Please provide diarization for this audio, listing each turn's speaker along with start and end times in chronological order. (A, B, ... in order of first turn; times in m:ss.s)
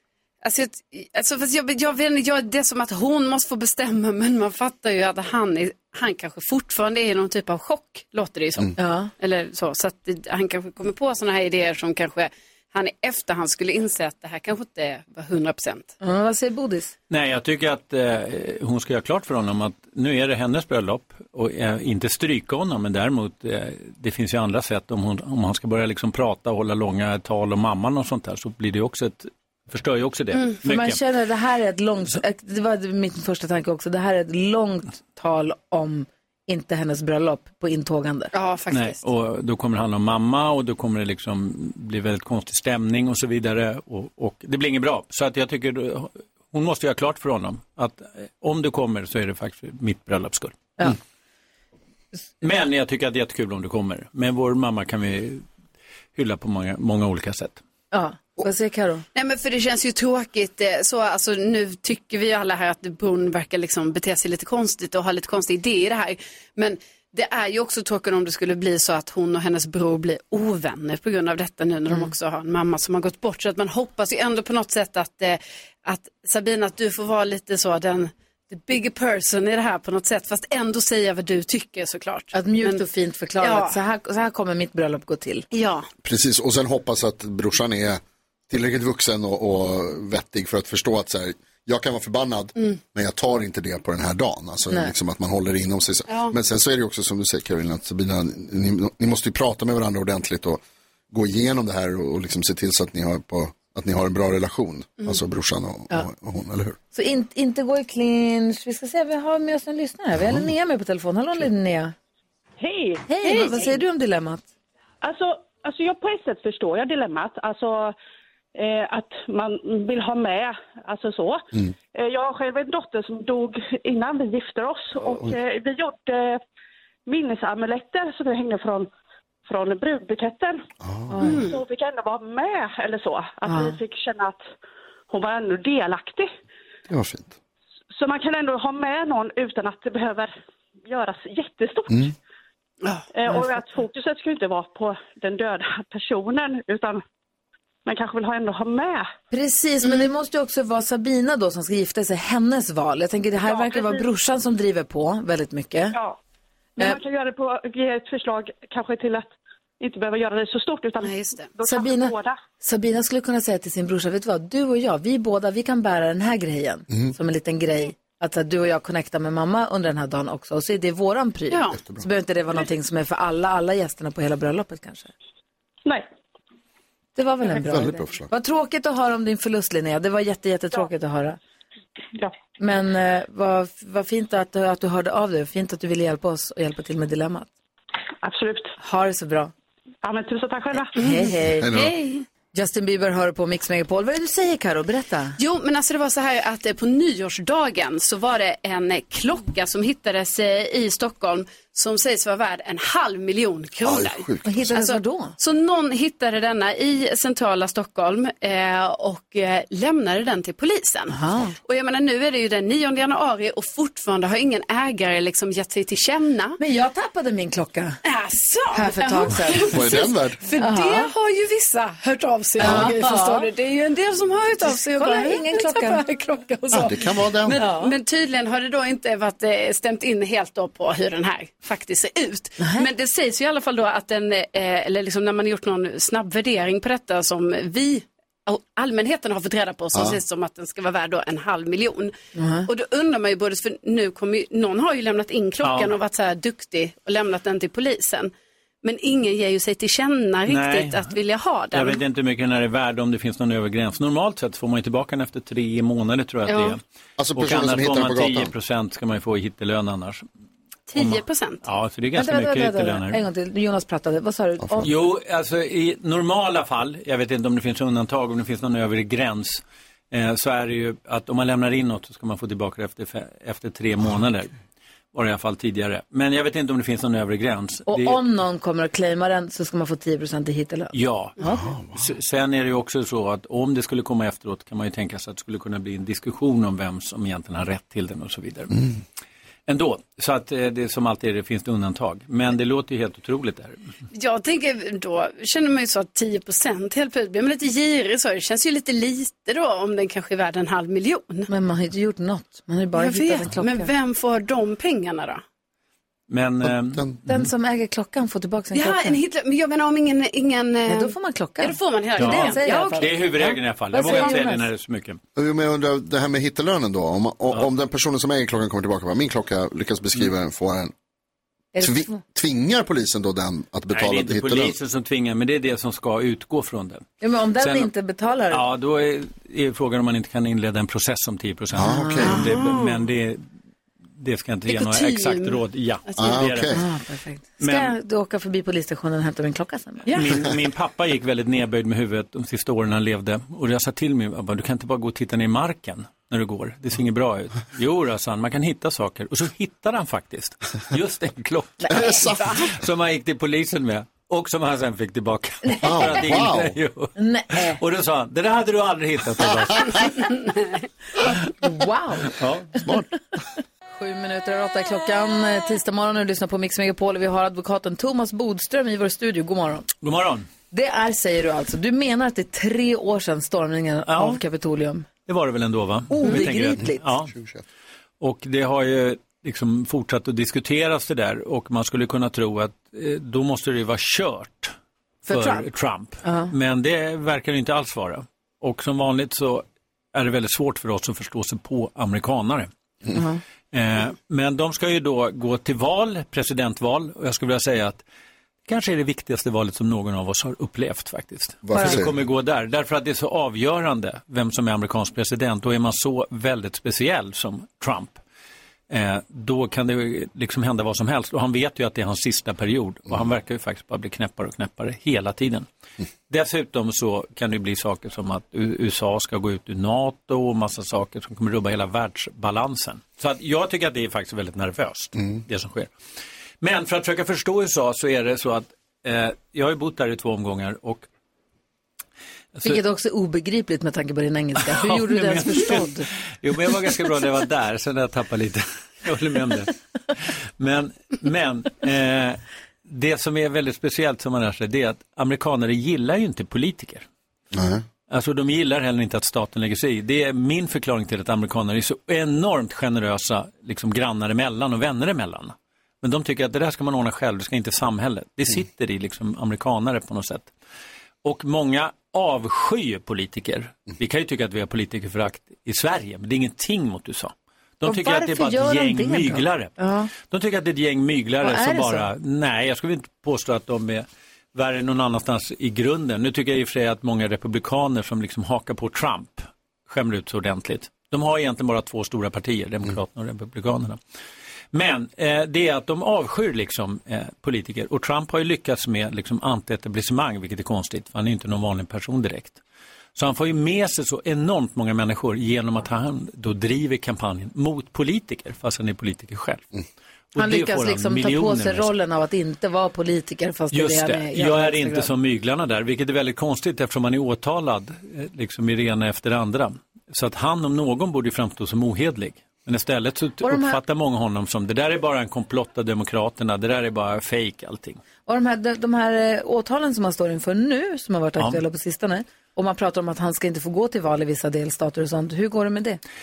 0:00.4-0:15.9 A
0:08.8-0:09.1 B
0:16.0-0:16.9 B
0:17.1-0:31.0 C
0:30.6-0:38.3 B
0:38.3-0:39.0 A
0:38.7-0:50.9 C
0:52.4-0:55.4 C
0:56.1-0:57.6 C
0:57.9-0:59.0 B
0:59.1-1:22.8 A
1:22.3-1:25.4 B
1:23.4-1:23.7 A
1:25.5-1:25.9 A
1:26.0-1:46.8 D
1:36.1-1:36.3 A
1:46.9-1:51.9 B
1:52.6-1:53.6 E
1:53.1-1:54.4 B
1:55.0-1:57.9 E
1:58.5-2:06.4 E
2:05.0-2:05.3 D
2:07.0-2:08.9 E
2:09.4-2:10.6 E
2:10.8-2:11.4 D
2:11.1-2:11.4 B
2:11.2-2:11.6 A
2:11.4-2:14.4 E
2:13.4-2:13.8 B
2:15.1-2:16.3 E
2:16.9-2:17.3 D
2:17.9-2:20.3 E
2:20.9-2:22.1 E
2:21.9-2:22.1 D
2:23.1-2:27.0 E
2:27.8-2:29.1 E
2:29.3-2:36.0 B
2:33.5-2:34.0 E
2:36.8-2:39.3 E
2:39.8-2:42.4 E
2:41.0-2:41.5 A
2:41.6-2:55.1 B
2:51.5-2:51.8 A
2:51.8-2:52.0 D
2:57.2-3:01.4 B
2:57.6-2:58.3 D
3:02.6-3:07.5 B
3:08.2-3:08.7 E
3:08.8-3:09.5 B
3:10.0-3:11.0 E
3:10.9-3:15.4 B
3:11.6-3:11.9 D
3:15.4-3:36.6 A
3:23.8-3:24.6 D
3:24.4-3:25.3 B
3:31.1-3:31.5 B
3:36.6-3:38.0 B
3:38.0-3:47.0 A
3:38.7-3:39.8 B
3:39.7-3:40.4 D
3:40.6-3:41.1 B
3:42.6-3:42.9 D
3:42.6-3:43.5 B
3:44.6-3:46.0 B
3:46.7-3:47.6 D
3:47.5-3:47.9 B
3:47.6-4:02.1 A
3:52.6-3:52.8 B
4:02.4-4:02.7 B
4:02.6-4:08.3 A
4:05.6-4:05.9 C
4:08.8-4:12.0 A
4:10.5-4:11.1 C
4:11.7-4:16.8 C
4:16.5-4:16.8 A
4:17.2-4:18.5 D
4:17.3-4:20.2 C
4:20.9-4:21.6 A
4:21.0-4:23.2 C
4:22.1-4:24.9 B
4:24.8-4:34.5 C
4:35.1-4:38.2 C
4:37.9-4:41.6 B
4:40.9-4:41.4 C
4:41.6-4:42.0 D
4:41.9-4:48.8 C
4:49.7-4:53.8 C
4:54.1-5:01.5 A
5:01.5-5:03.9 B
5:03.0-5:05.4 A
5:06.3-5:07.1 C
5:07.2-5:09.2 B
5:08.7-5:13.2 A
5:10.9-5:14.6 B
5:12.2-5:15.2 C
5:14.0-5:14.4 A
5:15.4-5:20.9 D
5:21.7-5:22.2 B
5:21.8-5:24.8 D
5:23.9-5:27.0 C
5:27.2-5:28.6 B
5:27.6-5:27.9 C
5:28.5-5:33.4 C
5:31.7-5:32.4 D
5:31.8-5:32.5 B
5:32.2-5:33.0 A
5:34.2-5:36.8 C
5:34.7-5:36.3 A
5:36.2-5:36.8 D
5:36.7-5:40.1 B
5:37.6-5:37.9 C
5:40.1-5:40.4 A
5:40.1-6:00.2 C
5:51.9-5:52.6 D
5:55.6-5:56.1 B
5:55.8-5:56.8 D
5:57.2-5:57.8 B
6:00.2-6:00.8 A
6:01.6-6:02.3 B
6:02.3-6:02.8 C
6:03.9-6:09.9 B
6:10.0-6:10.5 C
6:10.7-6:15.1 B
6:14.1-6:14.4 C
6:15.2-6:17.3 C
6:16.1-6:17.1 B
6:17.3-6:17.6 D
6:18.2-6:24.7 C
6:25.2-6:32.7 C
6:25.3-6:25.6 B
6:26.2-6:26.5 B
6:33.1-6:33.4 B
6:33.7-6:38.0 C
6:38.6-6:48.2 C
6:41.6-6:42.1 D
6:41.7-6:42.0 B
6:48.9-6:55.7 C
6:56.3-7:05.9 C
7:06.6-7:11.1 C
7:12.6-7:16.1 B
7:14.6-7:19.7 C
7:20.6-7:27.0 C
7:27.5-7:27.8 D
7:28.1-7:40.5 C
7:41.2-8:04.0 C
7:47.8-7:50.1 B
7:51.4-7:52.1 B
8:04.7-8:12.6 C
8:13.1-8:19.6 C
8:20.3-8:21.9 C
8:20.4-8:25.1 B
8:23.7-8:38.0 C
8:33.4-8:33.8 B
8:38.3-8:46.0 B